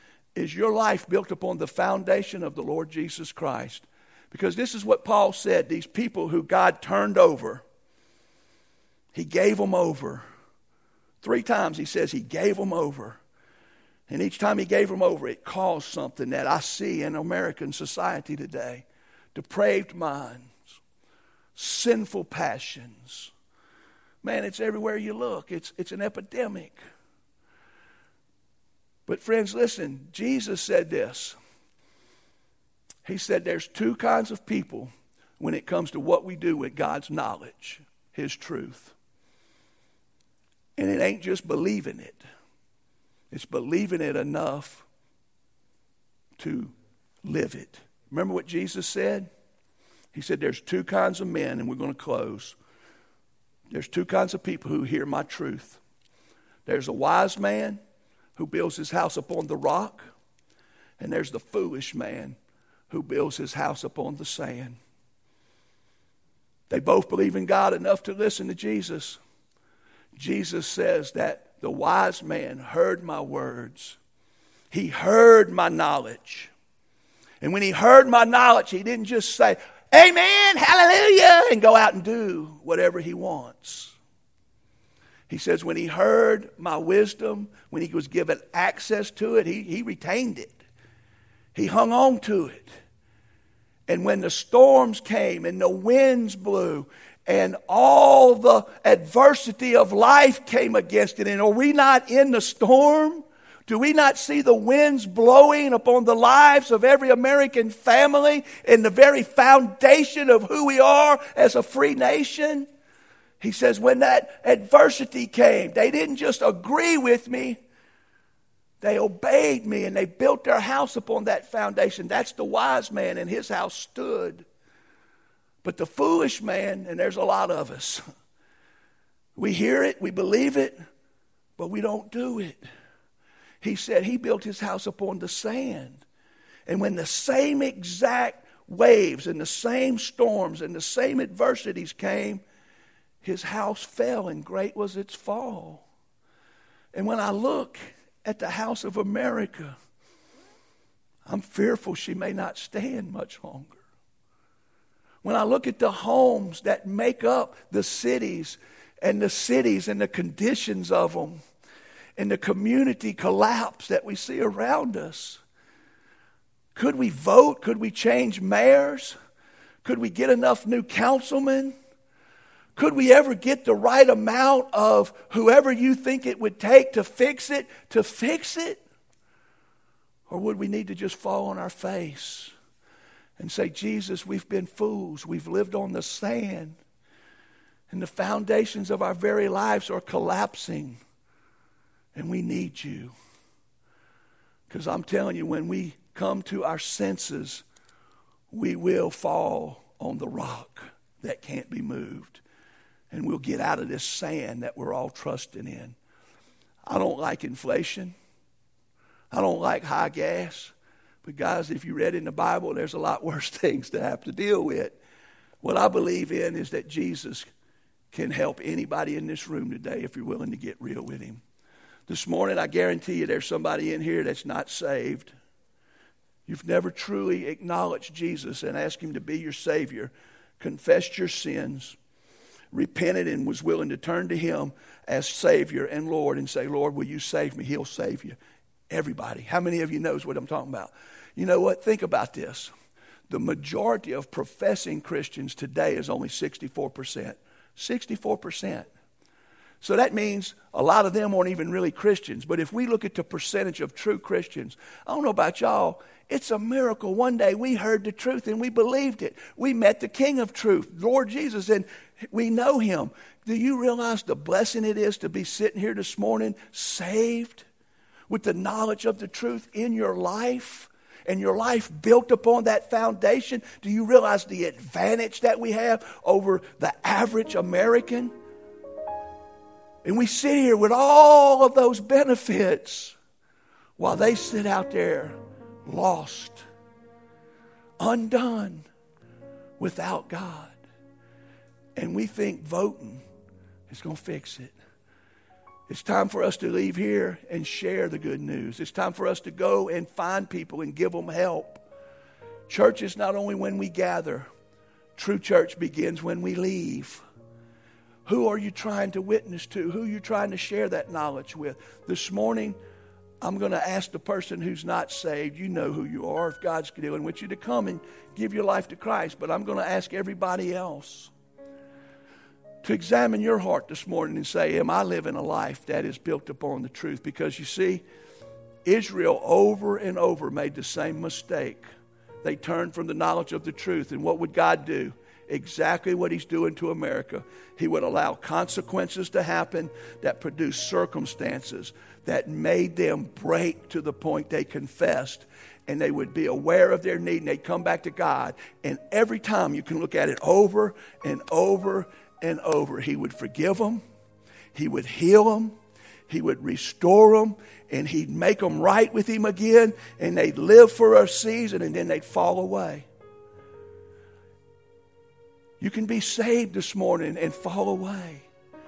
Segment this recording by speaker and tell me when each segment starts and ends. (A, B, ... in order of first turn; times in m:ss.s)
0:00.3-0:07.6 A
0:09.1-0:10.2 A
0:11.2-0:13.2 A
0:14.1-0:20.6 A
0:21.6-0:23.3 A
0:24.2-0:26.8 A
0:29.1-0:31.4 A
0:33.0-0:38.9 A
0:40.8-0:42.2 A
0:43.3-0:44.8 A
0:46.4-0:49.3 A
0:50.1-0:52.6 A
0:53.7-0:55.8 A
0:56.6-0:57.8 A
0:58.4-1:00.1 A
1:01.0-1:02.4 A
1:02.9-1:04.8 A
1:06.7-1:09.2 A
1:10.1-1:14.0 A
1:14.7-1:16.5 A
1:17.4-1:23.9 A
1:25.3-1:30.6 A
1:31.5-1:32.7 A
1:33.9-1:52.7 A
1:53.4-1:57.6 A
1:58.8-2:04.4 A
2:05.6-2:08.0 A
2:09.4-2:10.8 A
2:11.6-2:12.6 A
2:13.6-2:16.0 A
2:16.7-2:22.4 A
2:23.2-2:25.8 A
2:26.9-2:29.8 A
2:31.2-2:33.8 A
2:35.2-2:41.4 A
2:42.2-2:45.4 A
2:46.7-2:49.2 A
2:49.8-2:51.7 A
2:52.8-2:58.8 A
3:00.3-3:02.5 A
3:03.4-3:06.8 A
3:07.9-3:11.0 A
3:12.1-3:13.1 A
3:14.7-3:17.6 A
3:18.5-3:22.4 A
3:23.1-3:26.0 A
3:26.8-3:28.1 A
3:29.3-3:30.7 A
3:31.2-3:35.0 A
3:35.6-3:37.5 A
3:38.1-3:41.4 A
3:42.1-3:45.3 A
3:46.4-3:52.0 A
3:52.7-3:58.4 A
3:58.9-4:02.7 A
4:03.3-4:08.9 A
4:09.8-4:27.6 A
4:28.3-4:38.3 A
4:40.0-4:43.2 A
4:44.0-4:46.6 A
4:48.0-4:48.9 A
4:49.8-4:50.8 A
4:52.0-4:53.2 A
4:53.9-4:54.7 A
4:55.9-5:01.8 A
5:02.7-5:04.5 A
5:05.2-5:07.2 A
5:08.2-5:12.8 A
5:13.4-5:21.3 A
5:22.8-5:28.0 A
5:28.8-5:31.8 A
5:32.4-5:54.0 A
5:54.7-5:55.8 A
5:56.3-6:03.1 A
6:05.8-6:08.4 A